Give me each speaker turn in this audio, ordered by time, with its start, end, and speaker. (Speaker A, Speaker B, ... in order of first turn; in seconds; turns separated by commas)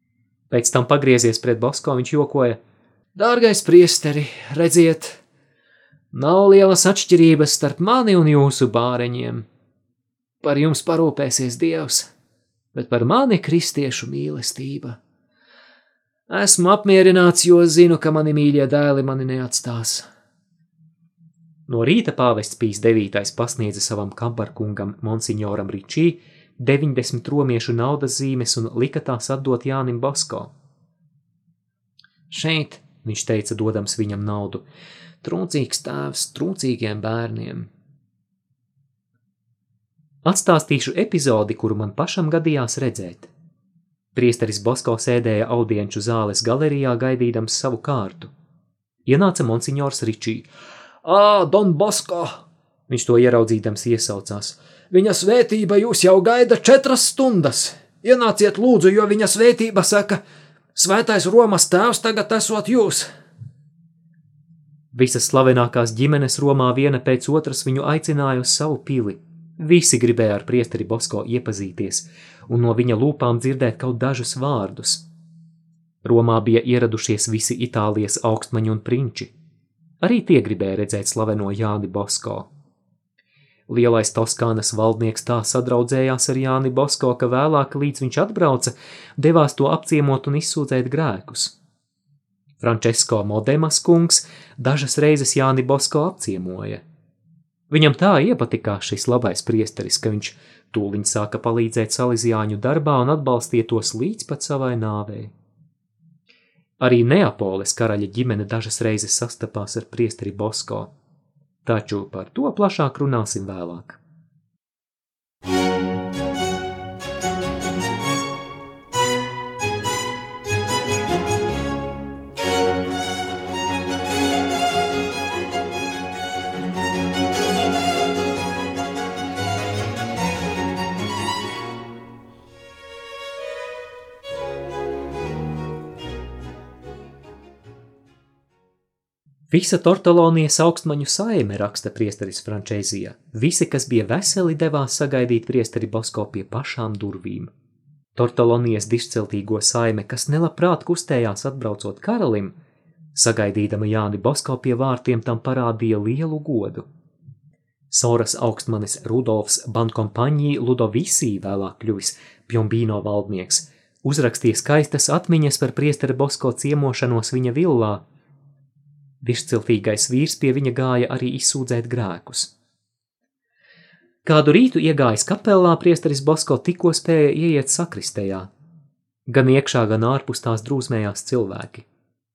Speaker A: 0.5-2.6, Speaker A: 3.1-5.2, Speaker A: 6.1-9.5, Speaker A: 10.4-12.1, Speaker A: 12.7-15.0, Speaker A: 16.3-20.0, Speaker A: 21.7-30.5, Speaker A: 32.3-34.6, Speaker A: 35.2-37.7, Speaker A: 40.2-43.3, Speaker A: 44.1-48.3, Speaker A: 49.0-50.5, Speaker A: 51.0-60.2, Speaker A: 60.7-63.1, Speaker A: 64.9-75.0, Speaker A: 76.0-79.3, Speaker A: 80.0-82.5, Speaker A: 83.7-91.5, Speaker A: 92.6-96.8, Speaker A: 97.7-105.3, Speaker A: 106.8-110.9, Speaker A: 111.6-114.0, Speaker A: 139.5-147.5, Speaker A: 148.1-152.5, Speaker A: 153.1-156.8, Speaker A: 157.9-168.0, Speaker A: 169.2-172.5, Speaker A: 174.2-178.5, Speaker A: 179.3-181.8